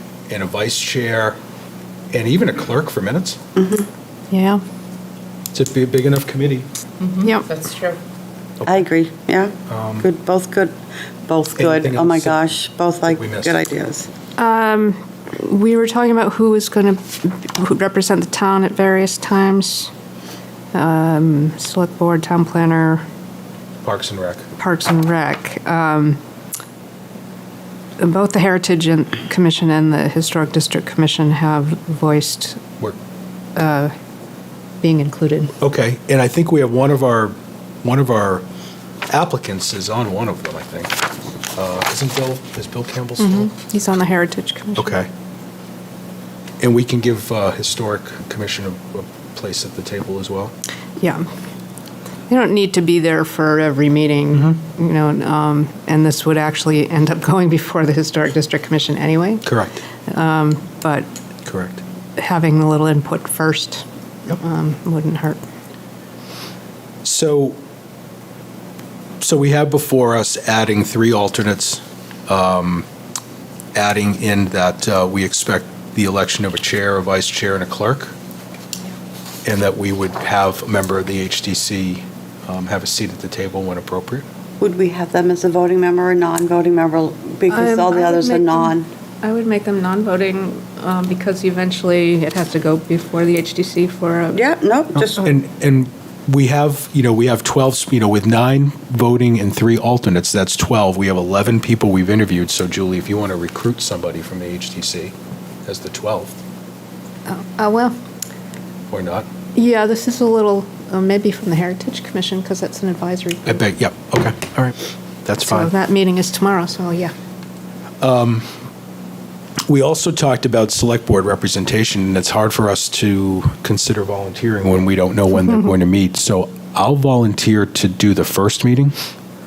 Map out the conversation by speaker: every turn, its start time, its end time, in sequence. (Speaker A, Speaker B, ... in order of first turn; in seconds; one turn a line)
Speaker A: 0.3-1.4
Speaker A: 2.1-3.4
Speaker B: 3.6-3.9
Speaker C: 4.3-4.6
Speaker A: 5.5-6.7
Speaker C: 7.2-7.5
Speaker B: 8.6-10.7
Speaker A: 9.7-10.1
Speaker B: 11.2-14.1
Speaker A: 11.6-13.6
Speaker C: 14.4-19.9
Speaker C: 20.7-23.0
Speaker A: 23.8-24.5
Speaker C: 24.6-26.2
Speaker C: 28.0-32.6
Speaker C: 33.5-33.9
Speaker C: 34.8-35.5
Speaker A: 35.6-38.4
Speaker A: 39.1-43.5
Speaker C: 43.2-45.0
Speaker A: 44.8-45.1
Speaker A: 46.6-50.5
Speaker C: 51.0-51.2
Speaker C: 52.3-59.5
Speaker A: 59.4-59.8
Speaker C: 60.1-61.1
Speaker A: 61.4-61.8
Speaker C: 62.2-63.8
Speaker C: 64.4-65.4
Speaker A: 67.0-67.6
Speaker A: 69.2-72.9
Speaker A: 73.7-78.1
Speaker A: 79.4-84.2
Speaker B: 84.6-88.9
Speaker C: 87.5-94.4
Speaker B: 94.3-95.2
Speaker A: 95.0-105.1
Speaker A: 105.6-106.4
Speaker C: 107.3-108.0
Speaker A: 108.9-109.3
Speaker C: 109.5-113.6
Speaker A: 113.5-115.7
Speaker C: 115.4-117.1
Speaker A: 118.0-118.5
Speaker A: 119.7-128.9